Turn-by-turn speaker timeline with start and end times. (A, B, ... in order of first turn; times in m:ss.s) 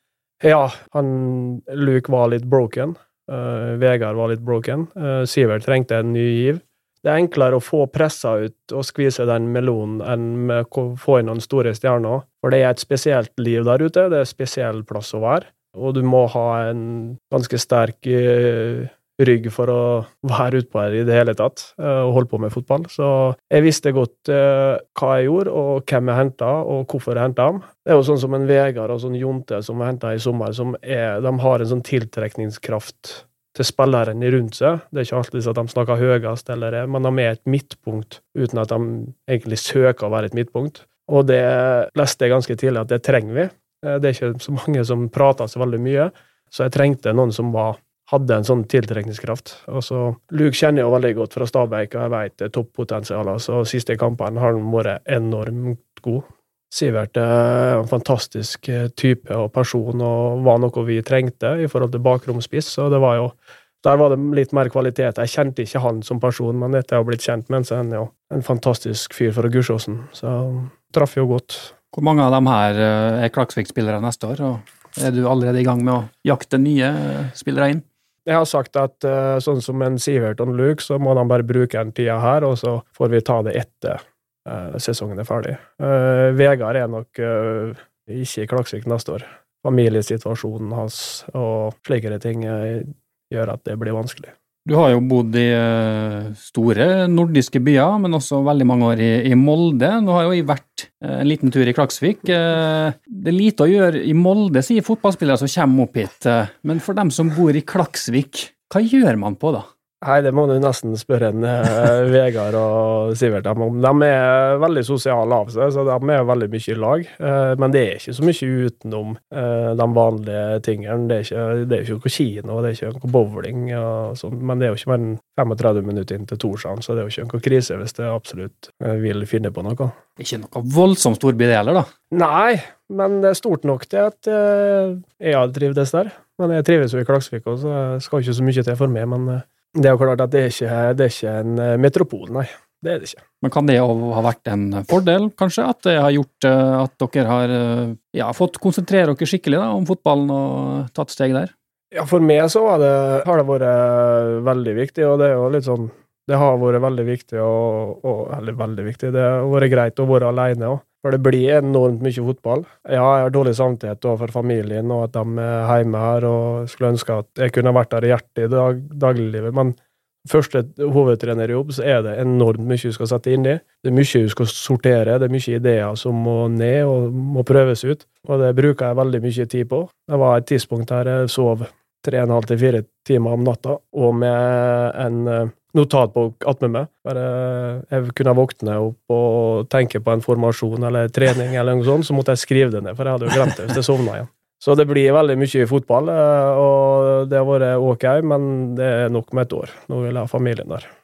0:00.4-1:11.7 A
1:11.9-1:17.8 B
1:18.2-1:34.3 A
1:34.6-1:49.7 B
1:50.0-2:09.9 A
2:10.2-2:11.9 B
2:12.1-2:23.2 A
2:23.4-2:31.5 B
2:31.9-3:20.9 A